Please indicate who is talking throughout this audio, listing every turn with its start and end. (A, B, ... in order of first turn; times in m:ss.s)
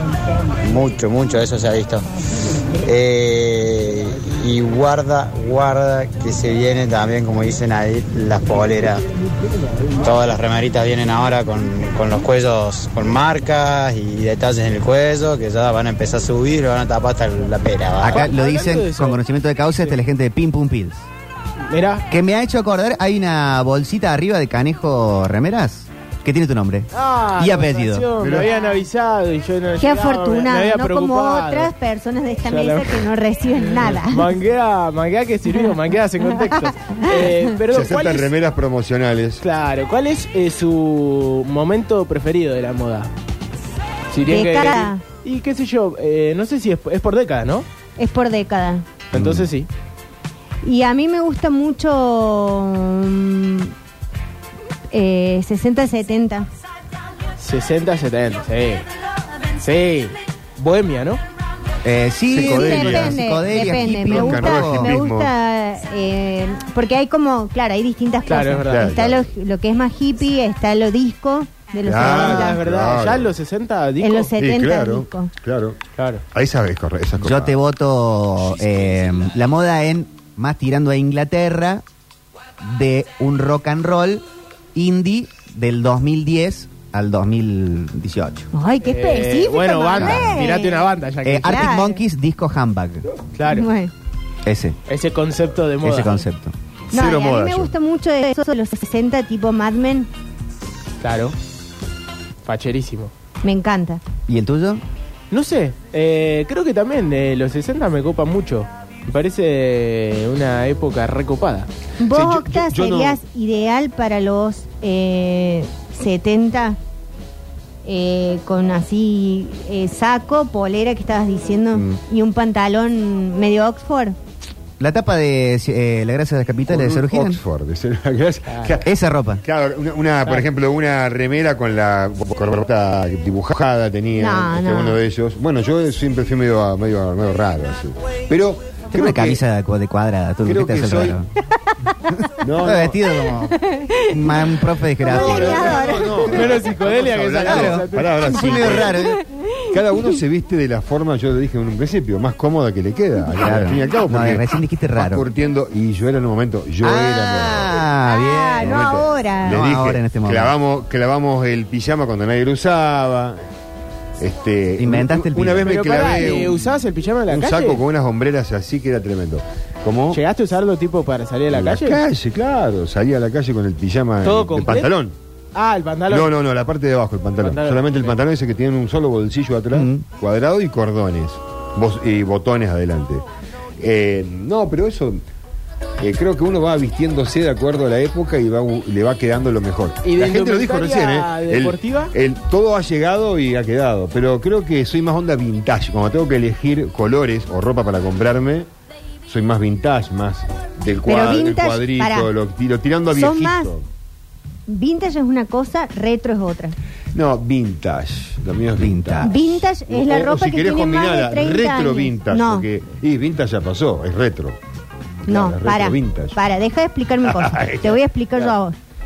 0:00.6-0:02.1 A
0:02.8-0:09.0 A
0:10.0-0:18.3 A
0:18.0-0:21.1 B
0:18.0-0:19.2 C
0:21.7-0:22.0 C
0:22.1-0:28.1 B
0:26.9-0:31.7 C
0:28.2-0:28.5 D
0:28.4-0:28.8 E
0:29.8-0:34.3 E
0:32.4-0:38.3 C
0:36.5-0:37.1 E
0:37.7-0:39.4 D
0:39.4-0:43.1 C
0:44.1-0:47.7 C
0:44.3-0:45.0 E
0:48.0-0:48.9 E
0:49.1-0:49.7 C
0:49.1-0:49.5 D
0:50.6-0:53.7 E
0:54.9-0:56.5 E
0:57.4-0:58.9 C
0:59.6-1:01.2 C
1:01.8-1:05.0 B
1:02.3-1:05.3 D
1:02.3-1:12.6 E
1:08.3-1:09.0 C
1:08.7-1:09.2 D
1:11.8-1:13.3 D
1:12.0-1:14.3 C
1:14.0-1:15.3 E
1:14.4-1:15.8 D
1:16.0-1:16.2 C
1:16.3-1:17.6 D
1:17.2-1:21.8 B
1:22.6-1:28.5 B
1:28.5-1:30.9 E
1:28.8-1:31.7 C
1:30.0-1:30.4 B
1:31.2-1:33.0 B
1:31.4-1:32.0 E
1:33.4-1:33.7 C
1:33.5-1:33.9 E
1:34.4-1:34.8 B
1:34.9-1:36.2 C
1:35.8-1:36.5 B
1:36.9-1:37.7 D
1:36.9-1:40.1 E
1:41.0-1:41.4 C
1:42.4-1:43.1 C
1:43.4-1:44.0 E
1:44.3-1:44.8 B
1:45.3-1:51.7 C
1:52.0-1:56.8 E
1:52.1-1:53.2 D
1:57.8-2:04.2 E
2:01.7-2:02.0 B
2:04.8-2:07.4 B
2:06.7-2:19.4 D
2:08.5-2:08.8 C
2:08.8-2:09.4 B
2:14.2-2:15.0 E
2:18.9-2:21.3 B
2:20.5-2:21.2 D
2:22.1-2:25.8 B
2:22.4-2:23.0 D
2:23.5-2:26.4 E
2:25.1-2:29.1 D
2:26.2-2:28.9 C
2:27.4-2:29.2 B
2:28.9-2:29.7 E
2:29.7-2:37.8 D
2:33.4-2:35.3 B
2:36.8-2:38.8 B
2:38.0-2:39.6 E
2:38.6-2:43.4 D
2:39.5-2:40.5 B
2:44.2-2:50.2 D
2:44.8-2:45.8 B
2:45.6-2:47.8 C
2:50.1-2:52.0 C
2:51.5-2:55.1 D
2:54.2-2:54.9 C
2:55.6-2:56.3 C
2:56.1-3:03.2 D
2:57.4-2:58.2 C
2:59.7-3:00.1 B
3:03.8-3:05.2 D
3:06.0-3:18.7 D
3:10.0-3:12.1 C
3:19.3-3:23.8 D
3:21.1-3:22.3 E
3:23.1-3:23.7 E
3:24.7-3:26.8 E
3:27.1-3:34.6 D
3:28.8-3:29.3 B
3:29.2-3:32.7 E
3:35.2-3:36.4 D
3:35.3-3:38.8 E
3:37.2-3:38.5 D